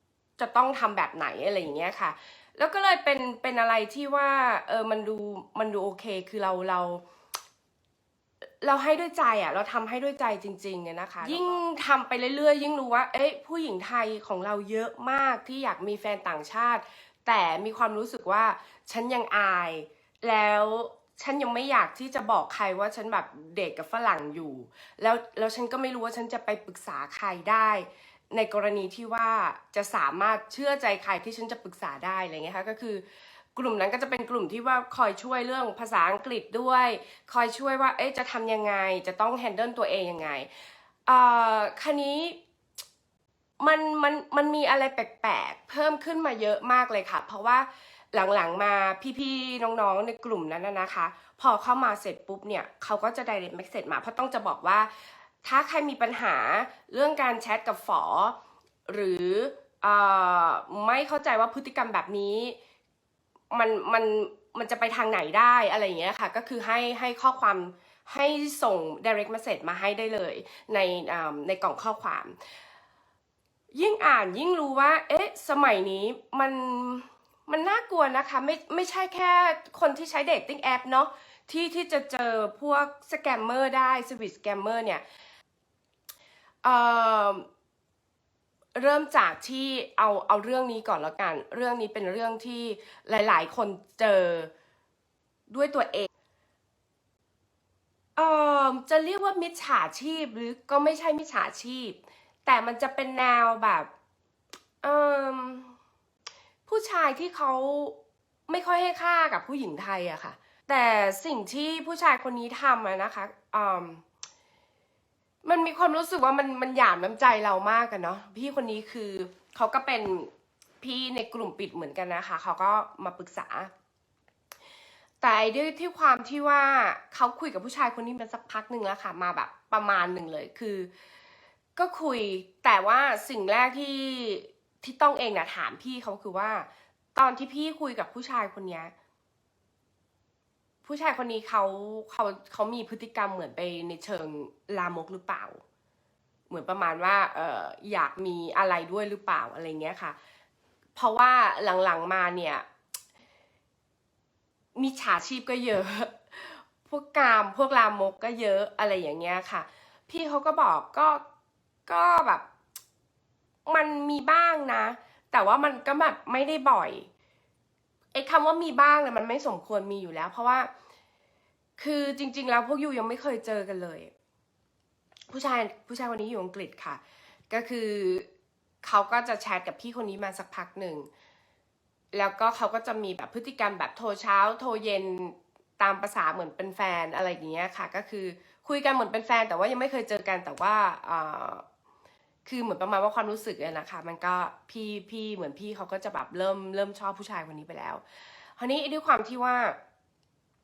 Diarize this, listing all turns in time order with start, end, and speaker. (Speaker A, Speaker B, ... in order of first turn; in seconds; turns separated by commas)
Speaker A: 0.4-7.0, Speaker A: 8.6-33.0, Speaker A: 33.5-42.4, Speaker A: 43.6-54.9, Speaker A: 55.4-62.6, Speaker A: 63.5-72.4, Speaker A: 73.7-85.0, Speaker A: 86.6-87.5, Speaker A: 88.8-94.5, Speaker A: 95.5-96.1, Speaker A: 98.2-103.9, Speaker A: 104.8-105.8, Speaker A: 106.7-108.0, Speaker A: 108.5-114.0, Speaker A: 115.4-120.3, Speaker A: 120.8-123.7, Speaker A: 125.2-130.9, Speaker A: 131.8-138.9, Speaker A: 140.8-145.6, Speaker A: 146.5-150.2, Speaker A: 151.0-152.7, Speaker A: 154.8-161.2, Speaker A: 161.9-162.4, Speaker A: 163.7-167.1, Speaker A: 168.1-170.7, Speaker A: 171.8-174.1, Speaker A: 175.3-178.3, Speaker A: 178.8-181.1, Speaker A: 182.1-191.7, Speaker A: 192.4-198.0, Speaker A: 198.6-199.8